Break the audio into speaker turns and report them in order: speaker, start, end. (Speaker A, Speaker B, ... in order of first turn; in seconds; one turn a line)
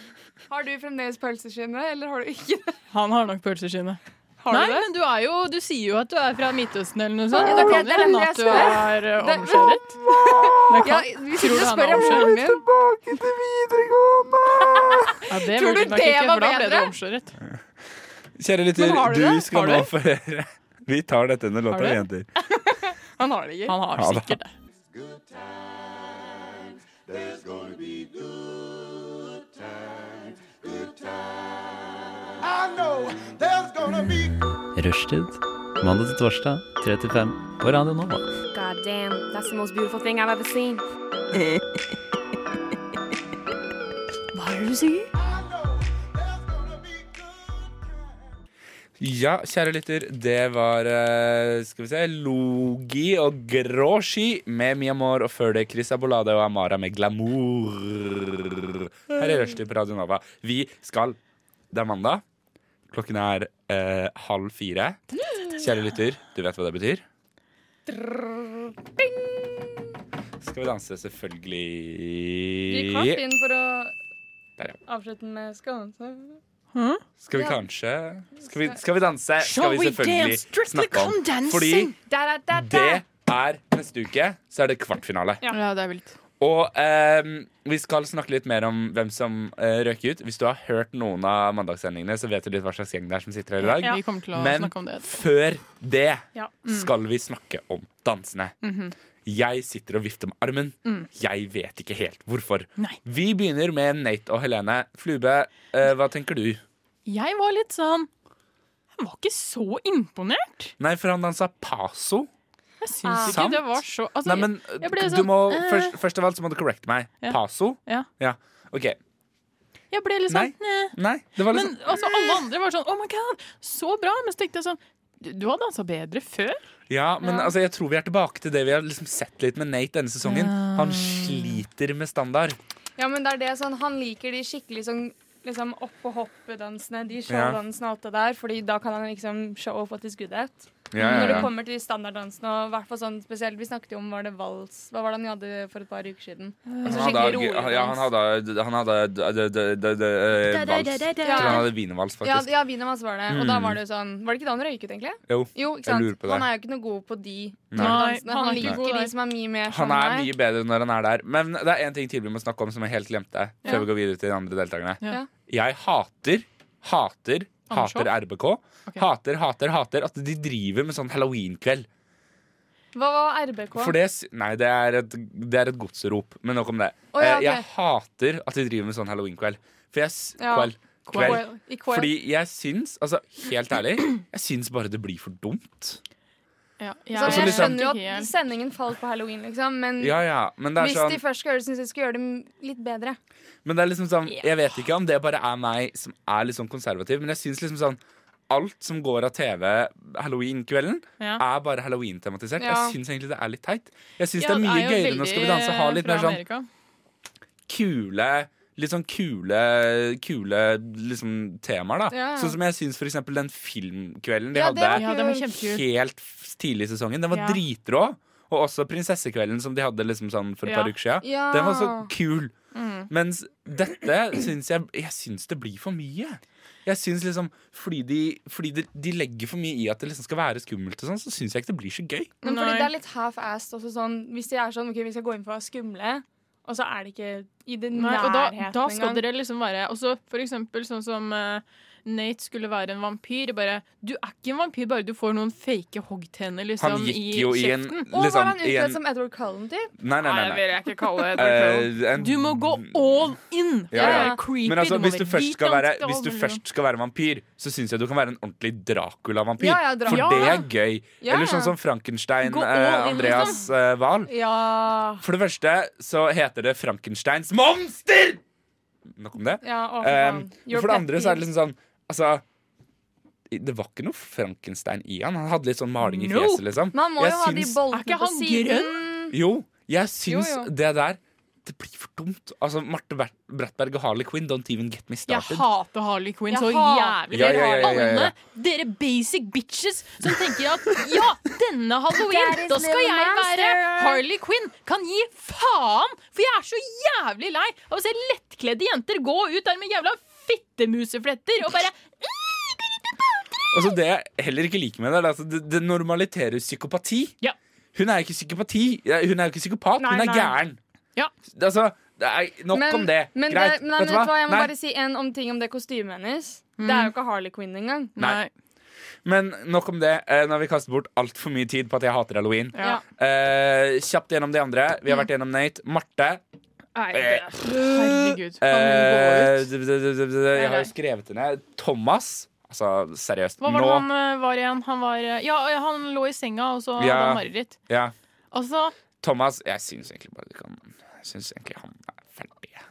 Speaker A: 0.5-2.8
Speaker B: 2.9-10.0
Speaker A: 4.4-4.9
Speaker A: 7.3-12.6
Speaker C: 10.1-10.7
Speaker B: 10.6-12.5
Speaker C: 12.3-15.2
Speaker A: 14.5-16.9
Speaker B: 15.3-17.4
Speaker C: 18.4-22.3
Speaker A: 18.8-19.9
Speaker B: 21.7-22.0
Speaker A: 22.5-23.8
Speaker B: 23.7-24.5
Speaker C: 23.9-24.4
Speaker D: 33.9-38.4
Speaker E: 38.5-40.8
Speaker B: 44.4-45.0
Speaker C: 49.0-61.2
Speaker C: 61.7-62.2
Speaker C: 62.9-67.0
Speaker A: 67.9-69.8
Speaker C: 70.4-73.2
Speaker A: 72.7-74.0
Speaker A: 74.9-76.4
Speaker B: 76.7-77.0
Speaker C: 77.2-81.9
Speaker A: 77.3-77.6
Speaker A: 78.5-78.8
Speaker B: 79.4-82.0
Speaker A: 82.1-83.0
Speaker C: 82.5-85.4
Speaker B: 85.5-86.1
Speaker C: 86.4-98.5
Speaker B: 93.6-95.1
Speaker B: 98.6-98.9
Speaker C: 99.2-106.6
Speaker B: 107.1-108.1
Speaker B: 109.0-110.8
Speaker C: 110.8-112.3
Speaker B: 112.8-116.0
Speaker A: 113.0-113.6
Speaker C: 113.2-119.0
Speaker B: 117.2-118.1
Speaker B: 119.9-126.6
Speaker C: 120.3-122.5
Speaker C: 126.9-132.6
Speaker A: 127.2-127.5
Speaker B: 130.2-131.6
Speaker A: 133.0-148.1
Speaker C: 137.3-137.6
Speaker C: 140.9-141.5
Speaker B: 141.0-141.5
Speaker B: 146.7-147.3
Speaker C: 146.8-152.5
Speaker B: 150.4-151.6
Speaker A: 151.2-151.7
Speaker A: 152.2-160.3
Speaker C: 153.3-153.8
Speaker C: 155.3-156.5
Speaker C: 157.7-158.1
Speaker B: 157.8-159.1
Speaker C: 159.7-171.9
Speaker B: 167.7-168.1
Speaker A: 172.9-174.0
Speaker C: 173.7-186.0
Speaker A: 177.1-177.7
Speaker A: 180.4-182.1
Speaker B: 181.1-181.5
Speaker B: 186.8-188.3
Speaker A: 187.2-190.2
Speaker C: 187.2-187.8
Speaker C: 190.0-191.2
Speaker A: 190.8-193.2
Speaker C: 193.7-206.4
Speaker A: 202.6-202.9
Speaker B: 204.4-206.7
Speaker C: 207.7-222.5
Speaker A: 212.1-212.6
Speaker A: 214.5-215.6
Speaker B: 214.9-215.8
Speaker B: 217.3-217.6
Speaker B: 220.7-220.9
Speaker A: 221.2-222.1
Speaker B: 222.7-223.1
Speaker C: 223.1-232.3
Speaker A: 232.4-239.2
Speaker B: 232.4-232.9
Speaker B: 237.9-248.1
Speaker C: 246.8-249.0
Speaker A: 248.1-249.9
Speaker C: 250.0-250.7
Speaker B: 250.2-256.6
Speaker C: 251.4-253.1
Speaker C: 253.9-264.3
Speaker A: 253.9-254.4
Speaker A: 259.6-260.6
Speaker B: 260.1-260.6
Speaker A: 261.2-261.7
Speaker B: 262.4-263.6
Speaker A: 264.3-265.2
Speaker C: 265.2-268.4
Speaker C: 269.1-272.4
Speaker A: 269.6-271.4
Speaker C: 273.5-277.8
Speaker B: 276.0-276.6
Speaker A: 276.9-279.4
Speaker B: 277.9-279.0
Speaker C: 279.3-285.7
Speaker A: 280.3-280.7
Speaker B: 285.3-303.2
Speaker A: 286.5-288.0
Speaker C: 287.3-288.3
Speaker A: 292.2-294.2
Speaker C: 303.7-307.3
Speaker C: 307.9-310.8
Speaker A: 310.0-310.6
Speaker C: 311.5-314.7
Speaker A: 312.7-318.2
Speaker B: 316.8-317.1
Speaker B: 318.2-318.5
Speaker C: 319.2-326.4
Speaker B: 322.7-323.0
Speaker B: 327.0-329.7
Speaker C: 327.1-334.1
Speaker B: 330.6-330.9
Speaker B: 333.6-337.8
Speaker C: 337.0-338.1
Speaker B: 338.5-338.9
Speaker C: 339.2-342.8